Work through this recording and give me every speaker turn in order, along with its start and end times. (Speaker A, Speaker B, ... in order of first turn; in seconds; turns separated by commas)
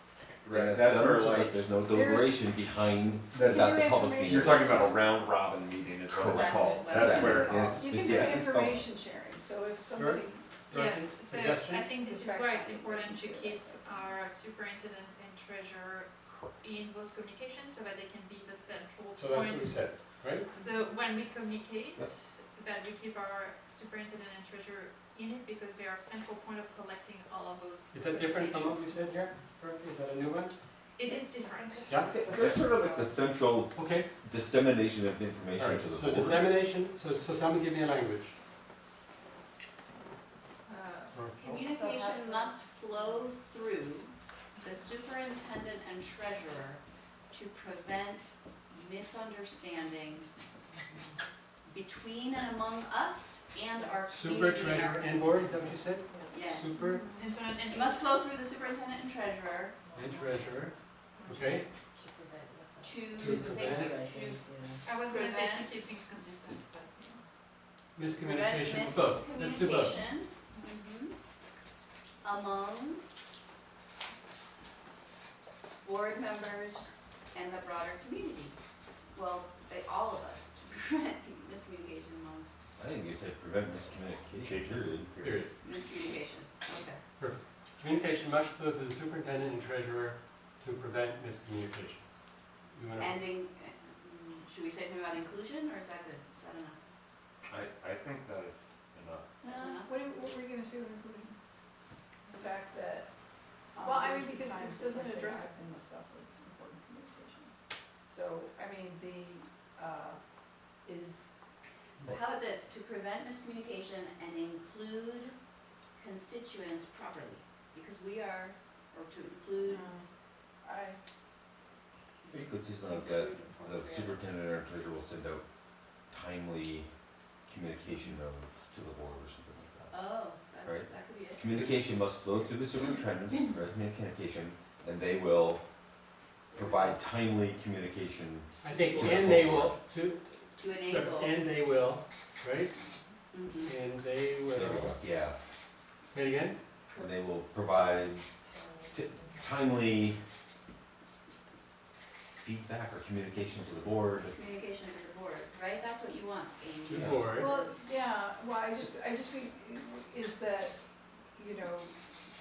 Speaker A: 0.4-1.7, Speaker B: 0.5-4.7, Speaker C: 1.9-2.4, Speaker A: 3.3-3.6, Speaker C: 3.5-5.0, Speaker A: 4.2-8.3, Speaker B: 6.0-8.8, Speaker D: 6.3-7.8, Speaker C: 6.7-10.6, Speaker E: 9.9-11.9, Speaker F: 10.7-29.1, Speaker C: 12.0-14.1, Speaker E: 19.1-20.5, Speaker E: 27.9-30.5, Speaker F: 30.9-32.1, Speaker G: 31.0-33.2, Speaker E: 31.9-32.2, Speaker B: 32.1-36.5, Speaker E: 33.7-34.1, Speaker E: 35.5-38.3, Speaker F: 40.6-41.1, Speaker E: 41.1-41.7, Speaker D: 41.3-50.2, Speaker G: 41.6-43.0, Speaker F: 44.6-44.8, Speaker D: 51.6-55.3, Speaker E: 54.1-57.1, Speaker D: 56.3-57.0, Speaker F: 57.1-58.1, Speaker D: 57.6-59.8, Speaker G: 59.9-60.6, Speaker E: 59.9-61.6, Speaker F: 61.2-61.6, Speaker G: 61.5-63.9, Speaker D: 62.8-65.7, Speaker E: 63.1-63.9, Speaker F: 64.8-67.2, Speaker E: 68.0-70.1, Speaker D: 68.2-71.1, Speaker D: 72.2-73.0, Speaker D: 75.8-78.5, Speaker D: 79.1-82.6, Speaker B: 82.8-85.4, Speaker A: 84.4-85.5, Speaker E: 85.2-85.5, Speaker D: 85.6-87.0, Speaker E: 87.2-92.0, Speaker E: 92.7-93.2, Speaker D: 93.0-96.8, Speaker A: 97.5-99.3, Speaker C: 99.4-101.4, Speaker D: 99.4-99.9, Speaker C: 102.3-111.4, Speaker D: 112.0-115.3, Speaker D: 115.9-119.9, Speaker C: 119.7-120.0, Speaker C: 120.6-121.0, Speaker B: 122.3-125.4, Speaker D: 122.8-124.3, Speaker B: 126.1-126.9, Speaker B: 127.5-130.1, Speaker D: 129.9-131.5, Speaker B: 130.6-135.6, Speaker D: 136.5-137.0, Speaker B: 136.5-139.8, Speaker E: 138.6-142.8, Speaker D: 140.6-141.4, Speaker D: 143.3-143.8, Speaker E: 143.6-145.0, Speaker B: 144.5-145.3, Speaker E: 146.0-146.6, Speaker D: 146.9-147.1, Speaker B: 146.9-148.3, Speaker G: 148.4-149.4, Speaker B: 148.9-150.2, Speaker B: 152.4-154.3, Speaker D: 154.2-157.7, Speaker E: 156.8-157.5, Speaker B: 156.9-157.3, Speaker C: 157.3-162.3